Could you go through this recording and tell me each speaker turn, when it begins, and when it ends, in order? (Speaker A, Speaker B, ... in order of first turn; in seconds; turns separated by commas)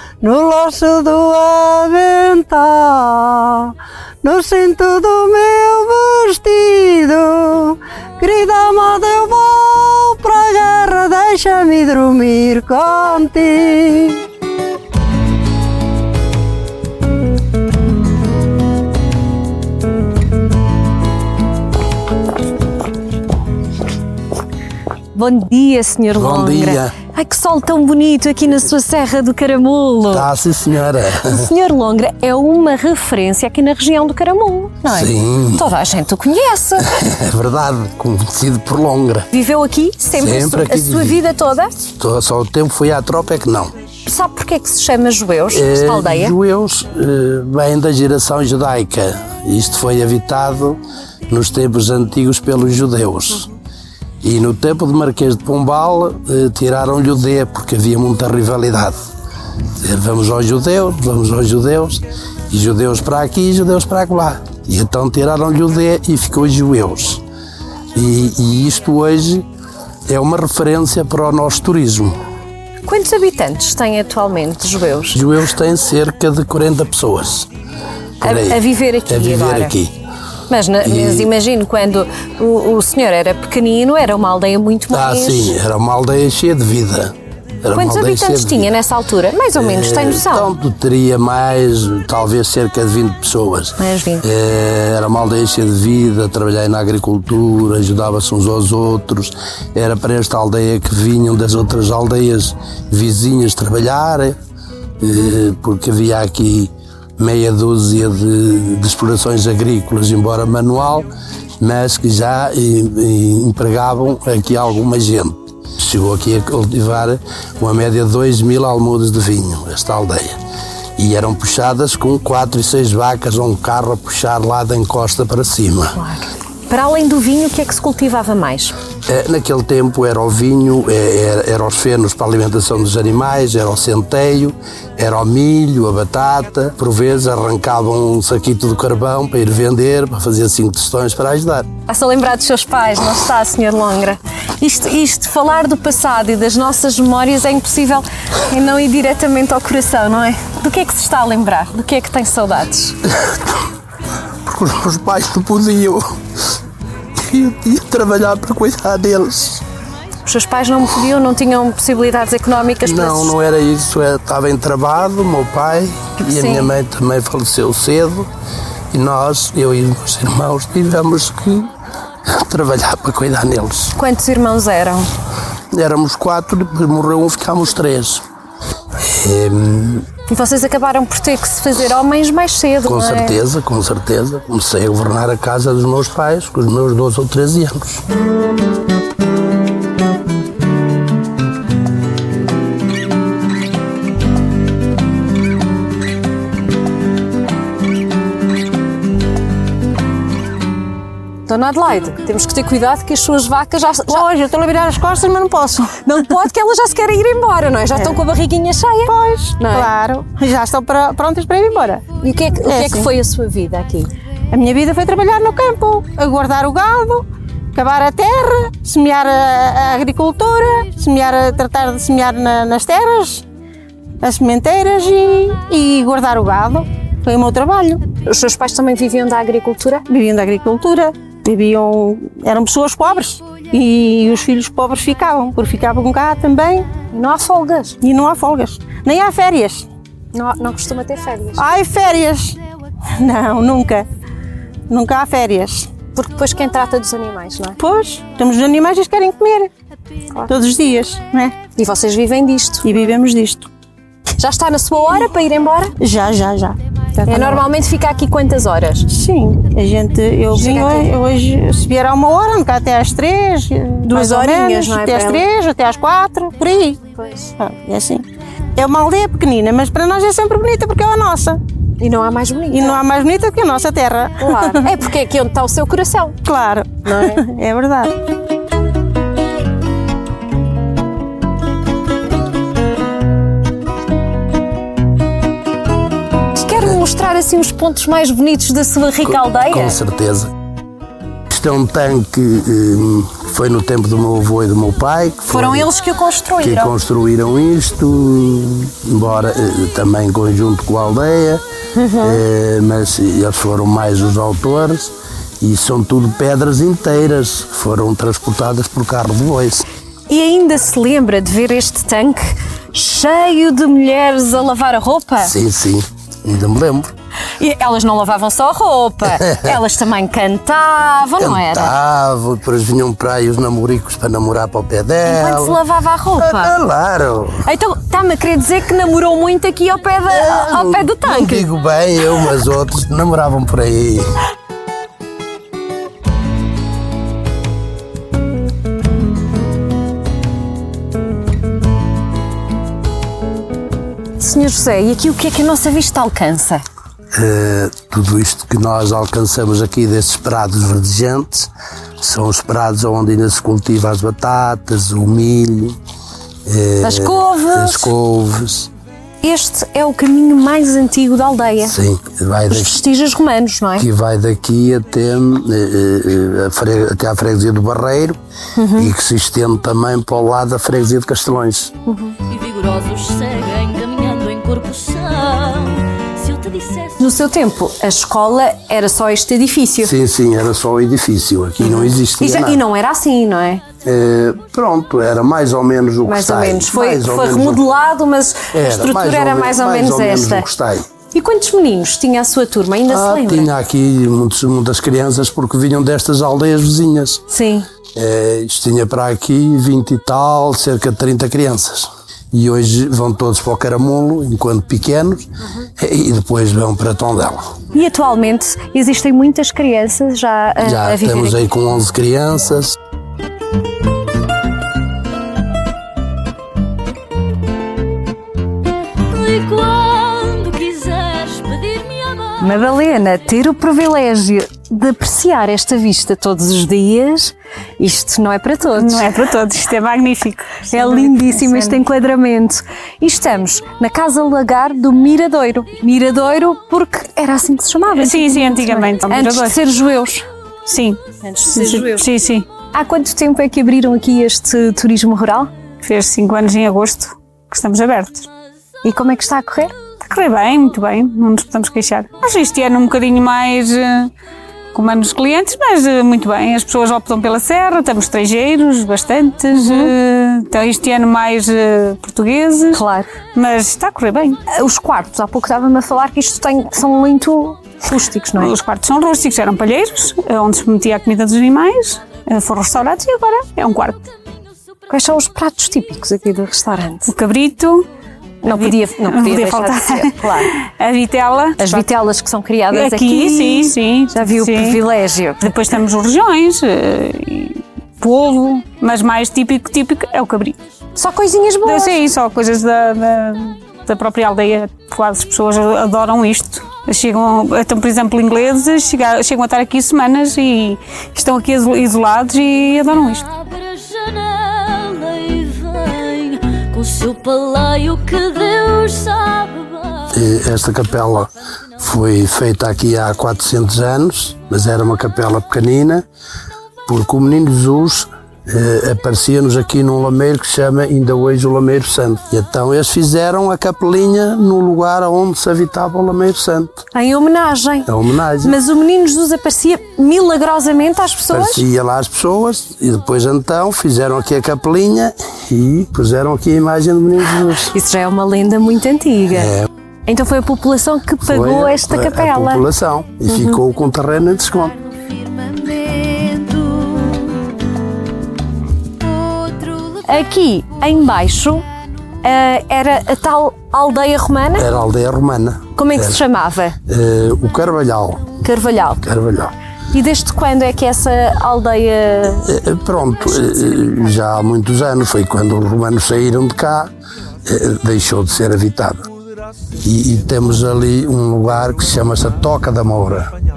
Speaker A: 0.2-14.2, Speaker B: 25.1-30.3, Speaker C: 26.2-26.9, Speaker C: 30.1-31.4, Speaker B: 31.3-36.9, Speaker C: 34.9-35.6, Speaker C: 36.9-39.3, Speaker B: 39.3-41.9, Speaker C: 40.2-41.2, Speaker C: 42.0-43.7, Speaker B: 44.1-46.4, Speaker C: 45.5-53.5, Speaker C: 54.2-59.0, Speaker C: 59.8-67.2, Speaker C: 68.0-69.5, Speaker C: 70.1-72.2, Speaker B: 72.8-75.2, Speaker C: 75.1-77.5, Speaker C: 78.2-79.9, Speaker B: 78.2-79.8, Speaker B: 80.5-85.6, Speaker C: 80.8-81.3, Speaker C: 84.9-88.7, Speaker B: 87.7-90.5, Speaker C: 89.6-104.4, Speaker B: 93.8-94.2, Speaker C: 105.0-111.1, Speaker C: 111.6-120.4, Speaker C: 121.0-126.0, Speaker B: 126.0-128.8, Speaker C: 129.1-141.7, Speaker B: 141.9-153.0, Speaker C: 154.4-156.1, Speaker C: 157.2-159.6, Speaker B: 160.2-163.3, Speaker C: 162.8-168.3, Speaker B: 166.2-166.7, Speaker C: 168.9-171.7, Speaker C: 172.3-173.9, Speaker B: 174.0-175.1, Speaker C: 175.7-178.2, Speaker C: 179.0-180.1, Speaker B: 180.3-183.4, Speaker C: 182.8-188.0, Speaker B: 201.5-204.2, Speaker D: 204.1-205.9, Speaker B: 205.9-209.9, Speaker D: 207.9-208.2, Speaker D: 209.1-212.0, Speaker B: 212.2-214.1, Speaker D: 212.7-213.1, Speaker D: 214.5-223.4, Speaker D: 224.2-228.0, Speaker B: 228.3-230.1, Speaker D: 230.1-236.9, Speaker B: 237.1-238.0, Speaker D: 238.0-239.9, Speaker B: 240.3-241.7, Speaker D: 241.6-242.6, Speaker D: 243.2-244.1, Speaker D: 244.9-245.9, Speaker B: 246.1-247.8, Speaker D: 247.8-249.7, Speaker D: 250.5-251.6, Speaker B: 251.8-252.9, Speaker D: 252.8-253.7, Speaker B: 254.4-255.9, Speaker D: 256.0-257.6, Speaker B: 257.2-259.1, Speaker D: 259.1-271.6, Speaker B: 260.5-261.1, Speaker B: 264.1-265.4, Speaker B: 267.2-267.5, Speaker B: 272.0-273.1, Speaker D: 272.7-274.9, Speaker B: 274.4-276.4, Speaker D: 276.4-278.1, Speaker B: 277.1-277.4, Speaker B: 286.5-290.0, Speaker C: 289.2-290.5, Speaker C: 291.5-295.9, Speaker B: 295.5-296.9, Speaker C: 296.6-301.6, Speaker B: 302.0-302.4, Speaker C: 302.2-309.9, Speaker B: 310.3-315.5, Speaker C: 315.4-317.1, Speaker B: 317.6-321.9, Speaker C: 321.4-325.8, Speaker B: 325.2-326.8, Speaker C: 326.4-327.6, Speaker B: 327.7-331.7, Speaker C: 330.3-334.3, Speaker B: 344.4-346.8, Speaker C: 347.3-356.0, Speaker C: 356.7-358.9, Speaker B: 357.0-358.1, Speaker B: 359.4-362.0, Speaker C: 361.8-363.0, Speaker B: 362.7-364.1, Speaker C: 364.0-368.4, Speaker B: 368.8-369.1, Speaker C: 369.0-371.9, Speaker B: 372.1-372.4, Speaker E: 372.5-377.2, Speaker B: 377.2-380.1, Speaker C: 380.0-382.8, Speaker B: 381.9-383.8, Speaker C: 384.0-387.9, Speaker B: 386.3-390.7, Speaker C: 388.7-391.1, Speaker B: 391.3-393.7, Speaker C: 393.1-397.4, Speaker B: 397.5-397.9, Speaker C: 398.1-405.5, Speaker C: 406.0-407.7, Speaker B: 407.9-411.6, Speaker C: 410.8-413.0, Speaker E: 419.3-422.6, Speaker B: 422.6-429.3, Speaker F: 429.0-431.2, Speaker B: 430.9-440.5, Speaker F: 438.2-439.7, Speaker F: 440.9-442.7, Speaker B: 441.4-442.3, Speaker B: 442.9-445.7, Speaker F: 446.0-448.5, Speaker B: 449.0-449.9, Speaker F: 450.2-454.3, Speaker F: 454.9-463.0, Speaker B: 459.7-460.1, Speaker B: 462.9-463.3, Speaker F: 463.6-464.6, Speaker B: 464.7-468.8, Speaker F: 468.6-474.3, Speaker B: 475.1-477.3, Speaker F: 477.3-478.1, Speaker B: 478.6-480.7, Speaker F: 478.7-480.1, Speaker F: 480.9-482.1, Speaker B: 481.8-485.8, Speaker F: 482.9-485.0, Speaker F: 485.6-490.8, Speaker B: 491.2-492.2, Speaker F: 491.9-503.5, Speaker E: 503.5-510.3, Speaker C: 510.3-516.2, Speaker C: 517.1-527.0, Speaker B: 527.1-528.1, Speaker C: 528.1-528.8, Speaker B: 528.6-531.8, Speaker C: 531.5-537.9, Speaker B: 537.9-539.7, Speaker C: 539.5-539.9, Speaker B: 540.3-542.9, Speaker C: 541.4-545.0, Speaker E: 545.4-547.3, Speaker B: 550.1-551.8, Speaker B: 552.4-554.9, Speaker C: 554.8-556.4, Speaker B: 556.0-557.0, Speaker C: 557.1-558.5, Speaker B: 558.6-559.2, Speaker C: 559.2-559.7, Speaker B: 560.1-562.7, Speaker C: 562.6-567.1, Speaker C: 567.7-569.3, Speaker C: 570.0-573.5